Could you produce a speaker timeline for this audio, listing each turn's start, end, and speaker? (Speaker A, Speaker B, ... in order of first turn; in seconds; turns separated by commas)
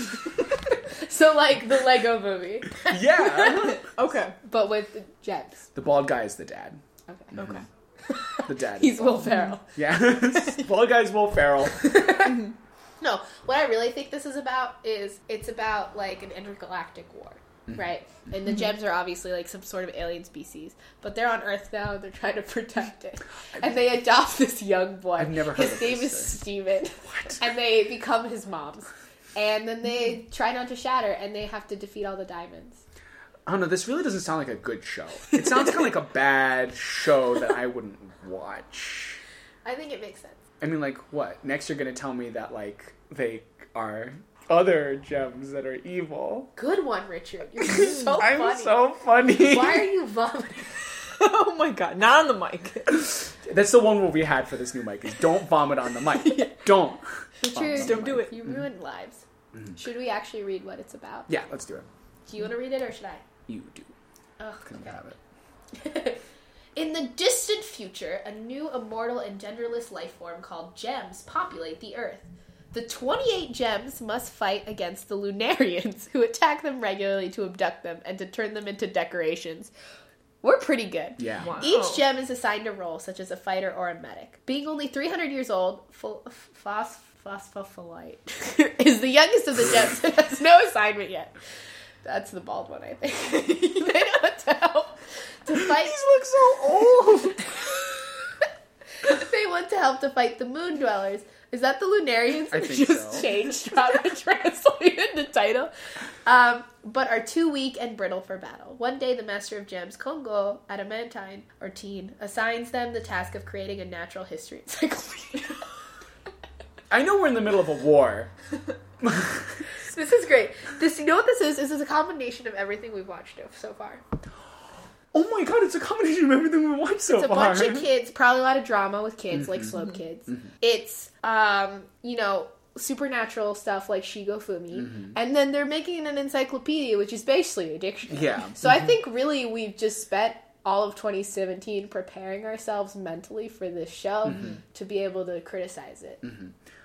Speaker A: 0.7-3.8, Speaker B: 2.8-3.9, Speaker C: 3.6-4.3, Speaker A: 4.4-5.7, Speaker B: 5.7-6.8, Speaker A: 7.1-7.4, Speaker B: 7.3-7.6, Speaker C: 7.4-7.6, Speaker A: 8.1-9.7, Speaker B: 8.4-11.9, Speaker C: 9.2-9.5, Speaker A: 11.8-32.8, Speaker C: 12.2-12.5, Speaker B: 25.2-26.4, Speaker B: 27.1-27.4, Speaker B: 33.5-39.2, Speaker A: 39.6-40.4, Speaker B: 40.6-46.5, Speaker A: 46.5-50.8, Speaker B: 47.7-49.9, Speaker C: 51.0-53.1, Speaker B: 52.9-58.6, Speaker A: 57.4-59.2, Speaker C: 57.7-58.3, Speaker A: 59.8-61.3, Speaker B: 61.3-61.9, Speaker A: 62.2-63.2, Speaker B: 63.5-63.9, Speaker A: 64.4-65.0, Speaker B: 64.7-65.2, Speaker A: 65.7-66.2, Speaker A: 66.8-79.7, Speaker A: 80.4-91.3, Speaker B: 81.2-81.6, Speaker C: 81.4-82.0, Speaker A: 92.0-96.0, Speaker B: 95.5-97.5, Speaker A: 99.0-105.7, Speaker B: 102.5-103.2, Speaker A: 106.2-115.6, Speaker B: 116.9-118.3, Speaker B: 119.0-119.6, Speaker A: 119.8-124.0, Speaker B: 125.1-127.9, Speaker A: 127.1-146.2, Speaker B: 138.1-138.9, Speaker B: 146.2-146.5